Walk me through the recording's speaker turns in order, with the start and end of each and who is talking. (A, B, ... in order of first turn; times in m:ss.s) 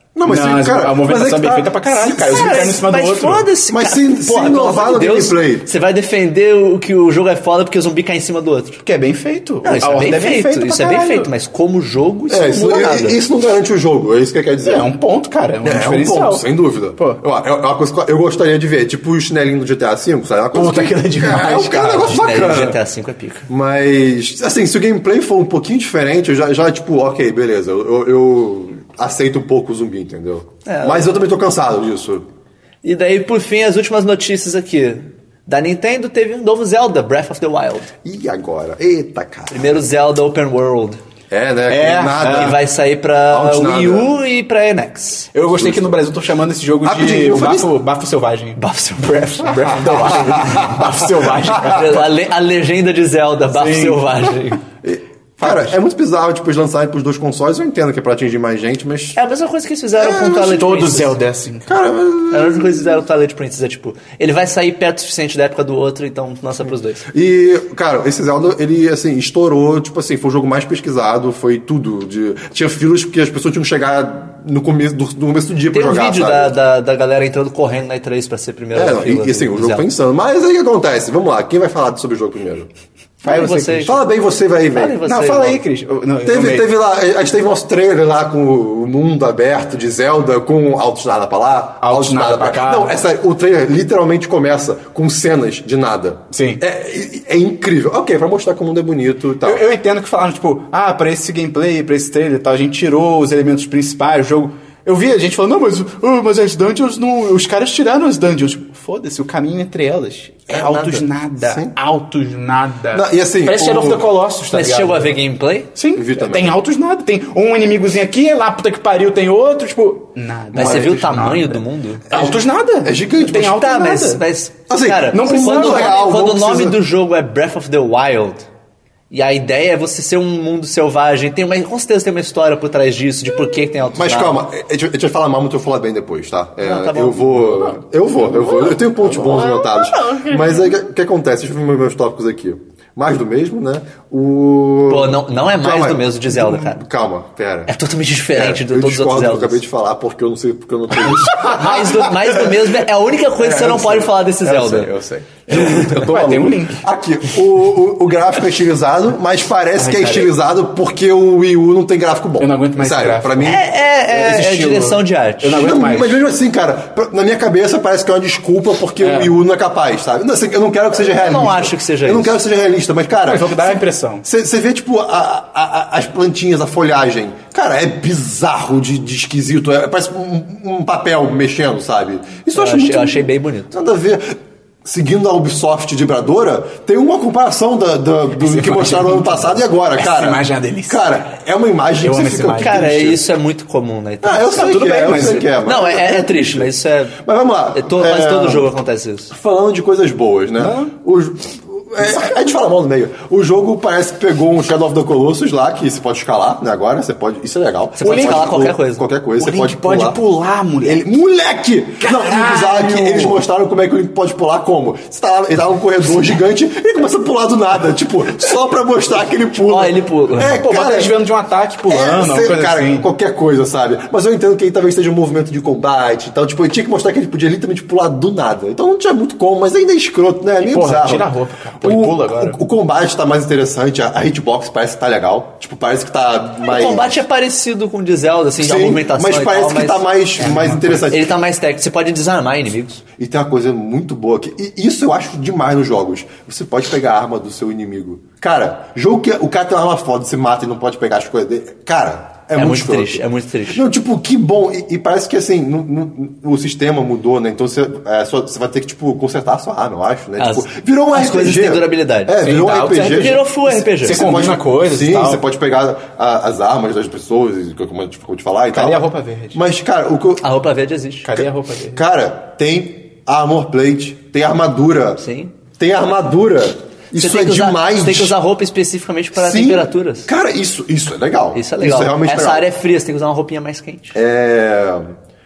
0:00.1-0:02.7 A
0:00.2-0:03.5 B
0:02.1-0:08.8 C
0:03.7-0:05.7 A
0:08.8-0:11.3 B
0:09.6-0:13.2 C
0:12.3-0:14.9 A
0:14.6-0:17.2 B
0:15.6-0:22.8 A
0:20.5-0:22.3 B
0:21.8-0:23.5 C
0:23.5-0:32.2 A
0:30.6-0:31.2 C
0:32.8-0:37.9 C
0:38.0-0:39.6 A
0:39.5-0:41.0 C
0:41.3-0:42.6 A
0:41.7-0:42.6 B
0:42.2-0:45.3 C
0:43.3-0:44.2 A
0:45.3-0:48.6 B
0:45.6-0:46.0 A
0:46.8-0:47.7 A
0:48.6-0:50.8 C
0:49.2-0:52.1 B
0:50.1-0:51.8 A
0:51.6-0:54.6 C
0:53.5-0:54.3 B
0:54.8-0:59.2 A
0:55.4-0:55.7 B
0:59.2-1:01.2 C
1:00.0-1:00.6 A
1:00.3-1:01.8 B
1:01.7-1:03.0 A
1:02.3-1:07.1 C
1:07.1-1:16.5 A
1:15.7-1:19.9 C
1:18.7-1:22.7 A
1:23.2-1:24.0 C
1:23.2-1:23.9 B
1:23.8-1:25.0 A
1:24.7-1:25.6 C
1:25.0-1:26.7 B
1:26.2-1:39.6 A
1:31.8-1:33.0 B
1:36.3-1:36.6 B
1:39.4-1:55.2 B
1:50.5-1:51.7 A
1:52.9-1:54.1 A
1:54.5-1:55.7 C
1:55.8-2:04.2 B
1:55.9-1:56.6 A
2:00.5-2:00.9 A
2:00.5-2:02.1 C
2:02.1-2:03.6 A
2:03.3-2:08.4 C
2:04.7-2:06.8 A
2:05.1-2:06.1 B
2:09.1-2:14.4 C
2:13.9-2:27.7 A
2:16.6-2:17.8 C
2:18.7-2:20.3 B
2:24.9-2:26.8 C
2:27.7-2:29.6 C
2:28.3-2:32.8 A
2:31.2-2:34.9 C
2:33.4-2:43.6 A
2:35.5-2:36.1 C
2:35.5-2:36.8 B
2:39.8-2:40.3 B
2:42.4-2:46.2 B
2:43.4-2:45.7 C
2:45.5-3:13.2 A
2:49.0-2:49.3 B
2:50.9-2:52.4 C
2:53.2-2:54.2 B
3:02.5-3:03.7 C
3:08.4-3:11.2 B
3:12.0-3:13.1 B
3:12.6-3:14.6 C
3:14.2-3:18.7 A
3:14.5-3:15.5 B
3:15.6-3:17.2 C
3:17.7-3:19.3 C
3:19.3-3:30.2 A
3:20.6-3:20.9 B
3:28.0-3:29.0 C
3:28.0-3:28.7 B
3:29.4-3:31.1 B
3:30.8-3:41.2 A
3:32.0-3:33.4 B
3:39.6-3:40.6 C
3:40.4-3:43.1 B
3:41.9-3:57.2 A
3:50.6-3:52.6 B
3:56.6-4:00.1 C
3:58.6-4:01.3 A
4:00.4-4:01.1 B
4:01.1-4:03.0 C
4:03.2-4:30.4 A
4:12.6-4:13.8 C
4:20.4-4:22.4 C
4:22.4-4:25.4 B
4:23.0-4:24.2 C
4:28.7-4:29.6 B
4:30.4-4:31.3 C
4:31.2-4:32.0 B
4:31.9-4:35.2 A
4:35.2-4:35.5 C
4:35.8-4:38.4 A
4:37.2-4:40.3 C
4:39.3-4:42.6 A
4:41.5-4:44.2 C
4:44.1-4:45.1 A